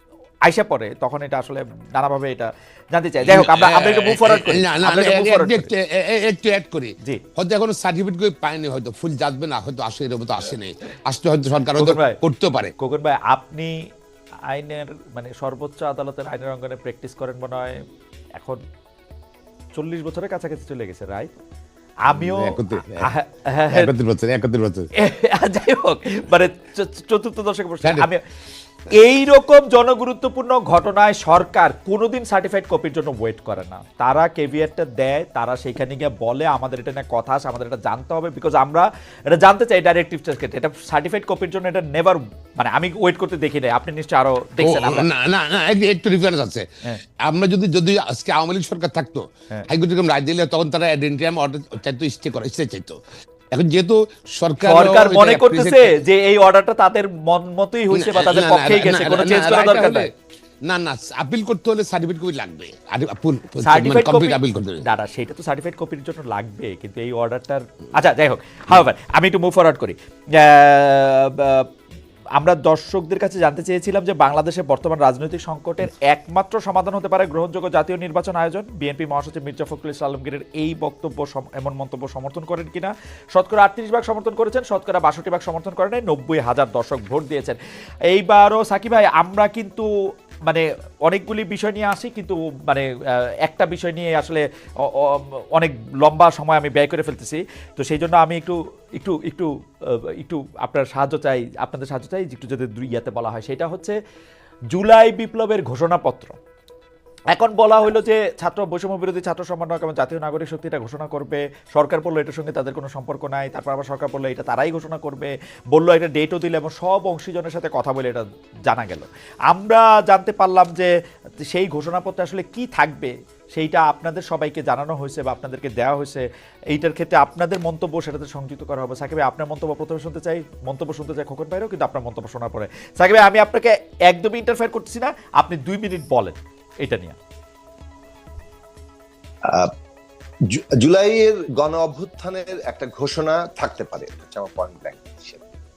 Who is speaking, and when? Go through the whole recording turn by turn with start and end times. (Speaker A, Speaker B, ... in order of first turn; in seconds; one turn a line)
Speaker A: 0.5-5.7
Speaker B: 3.3-12.7
Speaker A: 11.8-12.2
Speaker A: 12.8-13.8
Speaker A: 14.5-17.8
Speaker A: 19.8-21.3
Speaker A: 22.1-23.9
Speaker B: 22.2-23.1
Speaker B: 23.7-24.9
Speaker A: 25.0-28.2
Speaker B: 27.8-28.1
Speaker A: 28.9-45.1
Speaker B: 44.6-46.7
Speaker B: 47.2-53.0
Speaker B: 53.5-55.8
Speaker A: 54.6-60.1
Speaker B: 57.9-60.1
Speaker B: 60.6-64.8
Speaker A: 63.6-71.7
Speaker A: 72.4-87.6
Speaker A: 88.1-89.9
Speaker A: 90.5-104.0
Speaker A: 104.7-106.4
Speaker A: 107.3-120.9
Speaker A: 121.5-137.2
Speaker C: 140.5-145.4